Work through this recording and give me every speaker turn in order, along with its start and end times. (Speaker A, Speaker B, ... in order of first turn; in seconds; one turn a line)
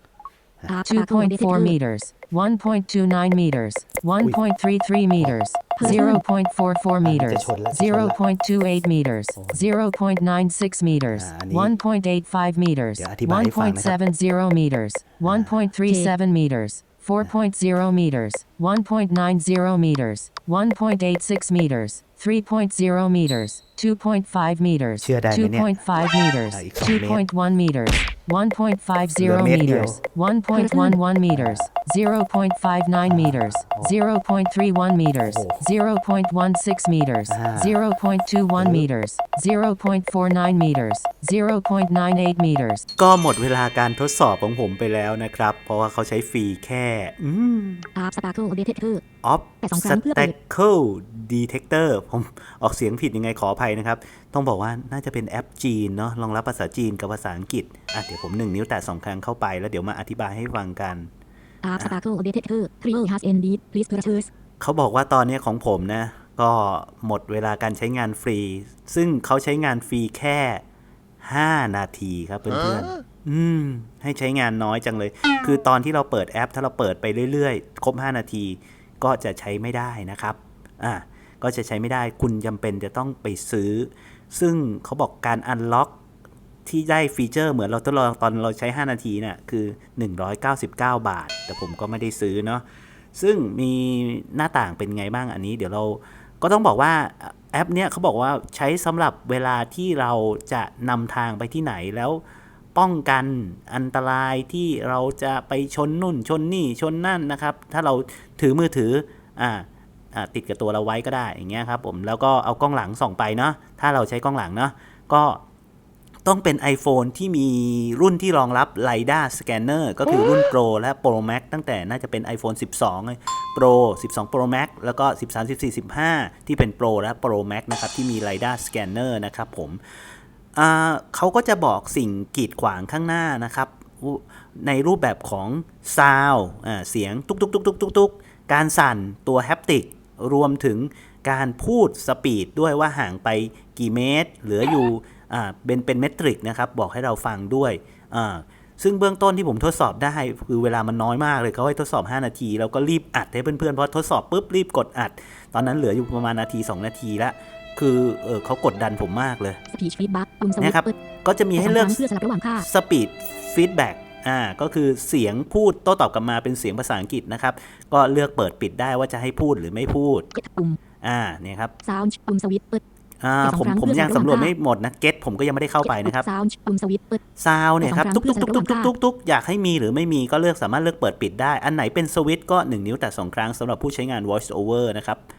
Speaker A: 0.7-1.7
Speaker B: 0.9-42.9
Speaker C: 5.2-6.0
Speaker A: 5.8-6.2
Speaker C: 7.0-8.2
Speaker C: 9.3-9.7
Speaker C: 11.1-11.7
Speaker C: 13.0-14.0
Speaker C: 15.2-15.6
Speaker A: 15.8-16.1
Speaker C: 25.0-25.9
Speaker C: 26.5-27.2
Speaker C: 29.1-30.0
Speaker A: 30.5-31.0
Speaker C: 31.3-31.7
Speaker C: 33.0-33.9
Speaker C: 35.2-35.6
Speaker C: 37.3-37.8
Speaker C: 38.6-38.9
Speaker C: 43.0-47.9
Speaker A: 47.9-49.0
Speaker C: 49.2-61.1
Speaker A: 49.6-50.3
Speaker A: 61.6-64.3
Speaker C: 64.6-70.6
Speaker C: 71.2-85.9
Speaker C: 86.7-102.2
Speaker C: 102.7-115.4
Speaker C: 116.2-130.0
Speaker C: 130.5-159.6
Speaker A: 159.7-160.9
Speaker C: 160.6-162.0
Speaker A: 161.6-162.7
Speaker C: 162.6-170.3
Speaker A: 170.3-170.8
Speaker C: 171.0-171.7
Speaker A: 171.8-172.8
Speaker C: 173.2-176.2
Speaker A: 173.4-174.5
Speaker A: 175.8-177.2
Speaker C: 177.4-185.2
Speaker A: 177.8-178.9